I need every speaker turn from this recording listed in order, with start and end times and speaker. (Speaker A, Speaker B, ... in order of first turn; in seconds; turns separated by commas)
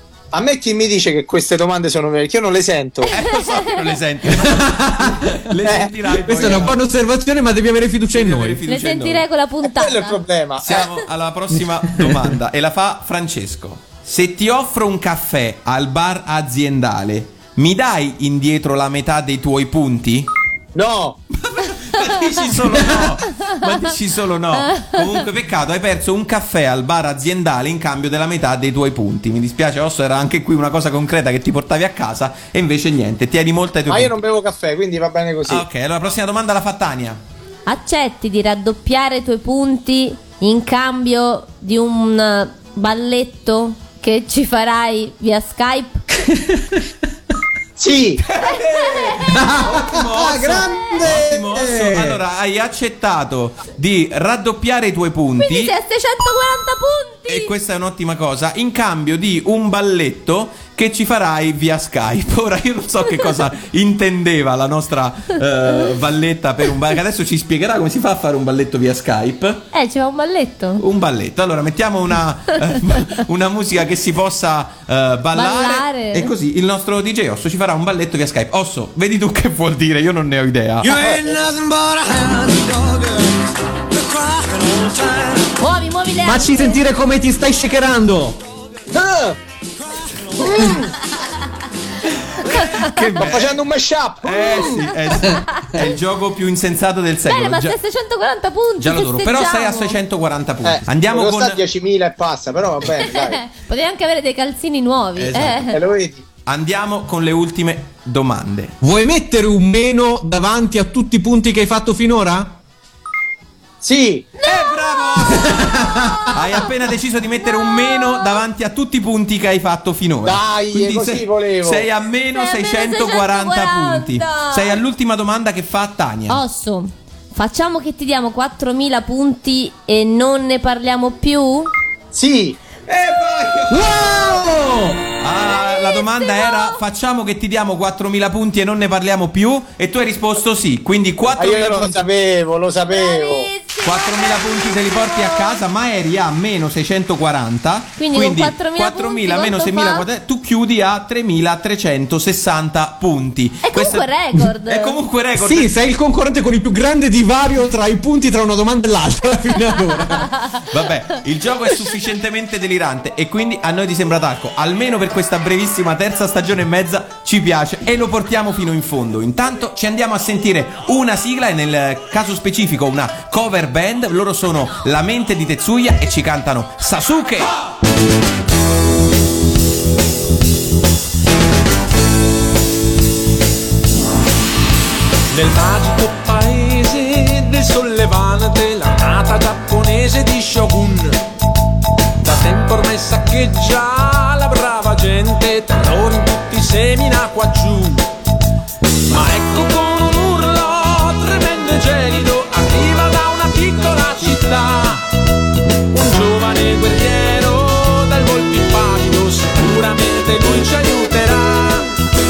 Speaker A: 0.3-3.1, Speaker B: 3.1-6.8, Speaker C: 3.1-3.7, Speaker D: 4.3-5.4, Speaker A: 5.6-6.7, Speaker D: 6.1-8.6, Speaker B: 8.1-9.2, Speaker C: 8.7-10.2, Speaker A: 9.6-10.9, Speaker B: 10.6-20.3, Speaker A: 20.7-21.2, Speaker B: 21.4-34.2, Speaker C: 24.7-25.2, Speaker A: 33.9-35.6, Speaker B: 35.5-37.2, Speaker C: 37.7-46.0, Speaker D: 46.3-46.7, Speaker A: 47.8-48.2, Speaker B: 48.2-55.7, Speaker C: 48.7-49.1, Speaker D: 49.2-52.2, Speaker C: 55.4-57.5, Speaker B: 57.3-69.6, Speaker C: 69.7-70.8, Speaker B: 70.8-80.9, Speaker C: 75.3-76.3, Speaker D: 80.9-81.2, Speaker A: 81.0-81.4, Speaker C: 85.6-86.8, Speaker D: 86.2-88.4, Speaker A: 88.9-89.3, Speaker A: 90.4-90.9, Speaker B: 92.4-93.6, Speaker A: 93.2-94.8, Speaker B: 94.2-97.8, Speaker C: 95.3-95.7, Speaker C: 97.3-100.0, Speaker B: 98.8-101.6, Speaker A: 100.6-103.4, Speaker C: 103.0-105.8, Speaker B: 105.2-105.7, Speaker A: 105.7-106.2, Speaker B: 106.5-108.7, Speaker D: 108.8-112.5, Speaker A: 113.8-114.3, Speaker C: 114.4-116.7, Speaker B: 114.4-115.7, Speaker D: 115.5-116.2, Speaker B: 116.3-126.4, Speaker C: 117.4-118.4, Speaker A: 120.2-121.9, Speaker C: 122.3-124.8, Speaker C: 126.3-131.7, Speaker A: 132.1-132.6, Speaker B: 132.9-134.3, Speaker D: 133.7-135.0, Speaker B: 135.2-142.1, Speaker C: 135.5-136.8, Speaker A: 141.3-143.5, Speaker C: 142.9-145.6, Speaker B: 143.8-155.7, Speaker C: 148.0-150.1, Speaker C: 153.6-155.0, Speaker D: 155.4-160.4, Speaker B: 160.7-177.6, Speaker E: 185.3-191.2, Speaker E: 192.2-198.1, Speaker E: 199.1-205.0, Speaker E: 205.9-211.9